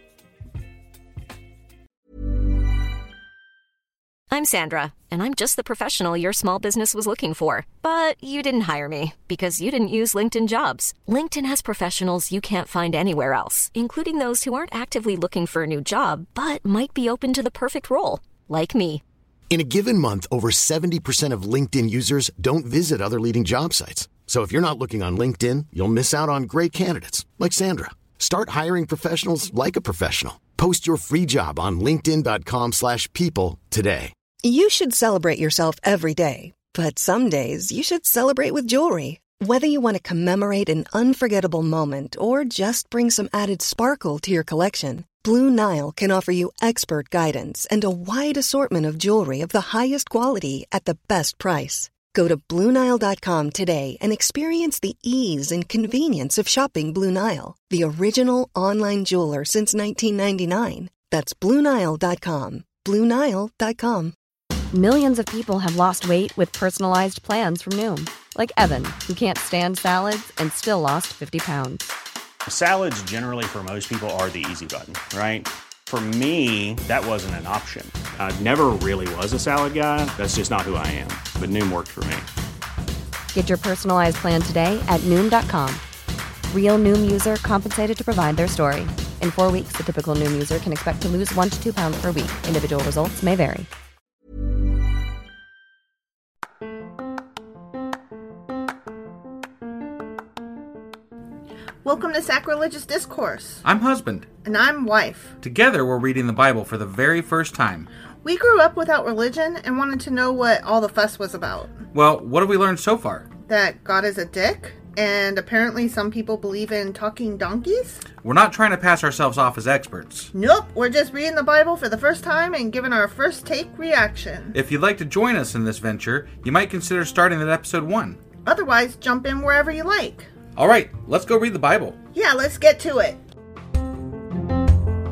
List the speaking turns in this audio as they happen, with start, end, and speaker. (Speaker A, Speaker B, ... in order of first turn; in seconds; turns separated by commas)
Speaker A: 4.3-19.0, Speaker B: 19.5-34.1, Speaker C: 34.4-64.2, Speaker D: 64.7-71.9, Speaker E: 72.5-82.3, Speaker D: 83.3-85.8, Speaker D: 86.5-93.7, Speaker F: 101.8-103.6, Speaker G: 103.6-104.3, Speaker F: 104.5-105.3, Speaker G: 105.4-107.9, Speaker F: 108.2-111.8, Speaker G: 111.9-113.3, Speaker F: 113.5-118.0, Speaker G: 118.2-120.3, Speaker F: 120.3-124.5, Speaker G: 124.5-128.2, Speaker F: 128.4-130.3, Speaker G: 130.6-132.0, Speaker F: 132.2-133.2